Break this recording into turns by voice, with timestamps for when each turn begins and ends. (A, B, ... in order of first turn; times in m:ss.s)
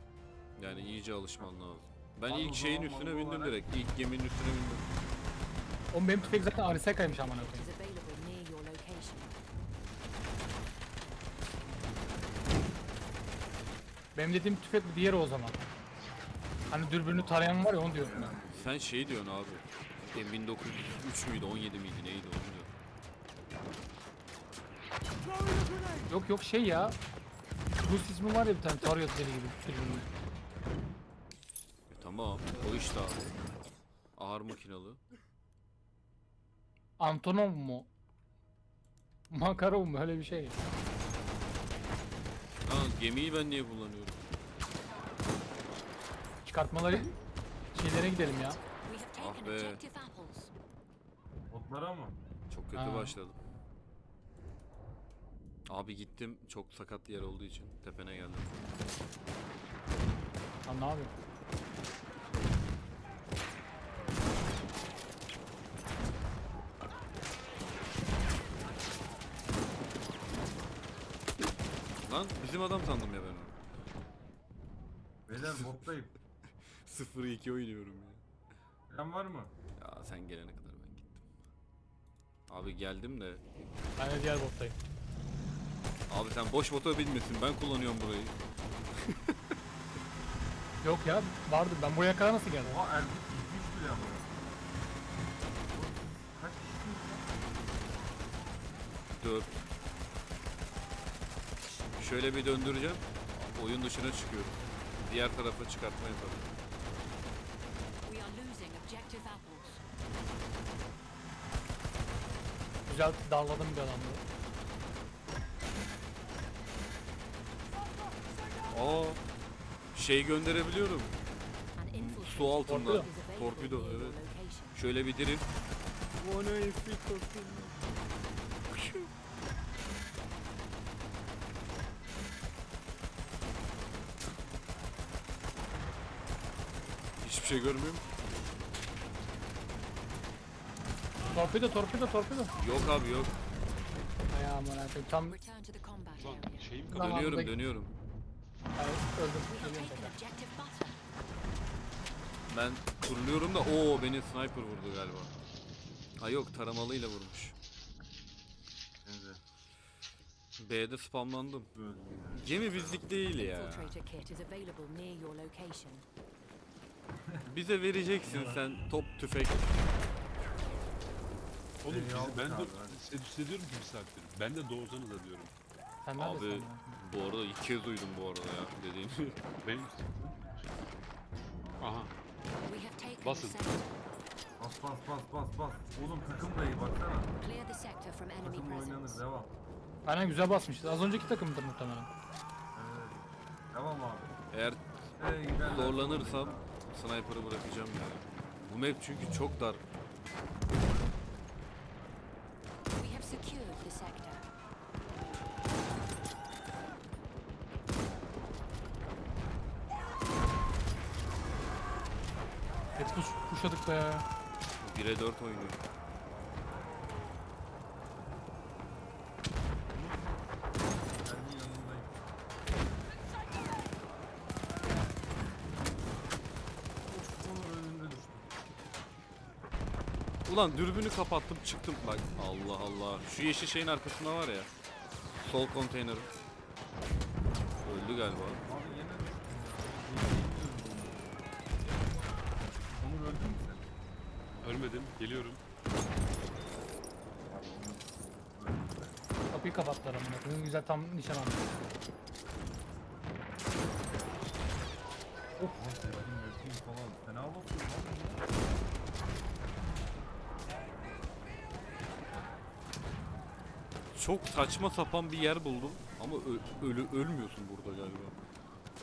0:00.6-0:04.8 A
0:02.2-0:03.7 B
0:05.9-0:07.6 C
0:06.2-0:06.6 B
0:07.3-0:09.3 D
0:14.1-0:15.6 C
0:16.7-0:18.3 C
0:18.1-0:18.5 B
0:18.4-0:22.7 A
0:26.1-0:27.0 C
0:27.8-0:30.1 C
0:31.9-0:33.2 A
0:34.2-0:35.0 A
0:37.0-0:37.9 C
0:39.3-0:40.6 C
0:42.6-0:44.2 A
0:46.4-0:47.1 C
0:47.7-0:48.6 C
0:48.6-0:50.5 D
0:49.2-0:49.8 A
0:51.5-0:52.2 B
0:52.5-0:53.4 A
0:52.7-0:53.2 C
0:55.7-0:58.5 A
1:00.6-1:01.1 C
1:12.0-1:13.6 A
1:15.3-1:16.1 B
1:16.8-1:18.2 A
1:18.9-1:19.5 B
1:19.8-1:21.2 A
1:22.5-1:23.4 A
1:24.0-1:24.8 C
1:26.1-1:28.4 A
1:29.0-1:29.4 A
1:30.8-1:32.7 C
1:32.6-1:34.3 B
1:35.7-1:37.3 B
1:39.1-1:39.6 A
1:42.0-1:46.5 A
1:48.0-1:49.8 D
1:52.9-1:54.2 C
1:58.7-1:59.2 A
1:59.9-2:01.1 A
2:01.8-2:04.8 D
2:01.9-2:04.2 A
2:02.7-2:03.1 C
2:04.7-2:05.4 A
2:06.2-2:07.7 B
2:08.7-2:09.1 A
2:17.2-2:18.0 A
2:21.3-2:22.5 C
2:22.5-2:23.3 A
2:24.3-2:25.4 C
2:25.1-2:26.7 D
2:26.2-2:27.3 E
2:26.9-2:27.6 C
2:26.9-2:27.9 A
2:28.8-2:30.2 C
2:29.5-2:31.0 D
2:32.5-2:35.3 A
2:36.2-2:37.5 A
2:39.0-2:39.4 B
2:40.6-2:41.7 A
2:41.7-2:43.0 B
2:42.3-2:43.9 A
2:43.3-2:46.0 D
2:47.4-2:49.7 A
2:48.2-2:48.6 B
2:51.8-2:55.5 E
2:51.9-2:53.0 B
2:56.0-2:57.0 C
2:56.2-2:59.4 A
2:59.6-3:00.6 E
3:01.8-3:02.1 E
3:02.6-3:03.9 D
3:03.2-3:03.6 E
3:04.6-3:07.3 B
3:07.4-3:09.2 D
3:08.4-3:09.5 B
3:10.0-3:12.1 C
3:12.7-3:14.3 B
3:14.5-3:14.9 A
3:15.2-3:16.7 B
3:15.6-3:19.8 A
3:23.0-3:24.5 D
3:33.0-3:34.2 C
3:34.8-3:35.8 A
3:41.2-3:42.2 B
3:47.1-3:48.5 B
3:50.4-3:54.7 A
3:55.4-3:56.3 A
3:57.8-3:58.6 A
3:58.6-4:01.4 B
4:02.9-4:03.9 B
4:04.6-4:05.6 E
4:07.5-4:09.2 B
4:09.5-4:11.7 C
4:15.7-4:18.4 B
4:24.1-4:28.3 A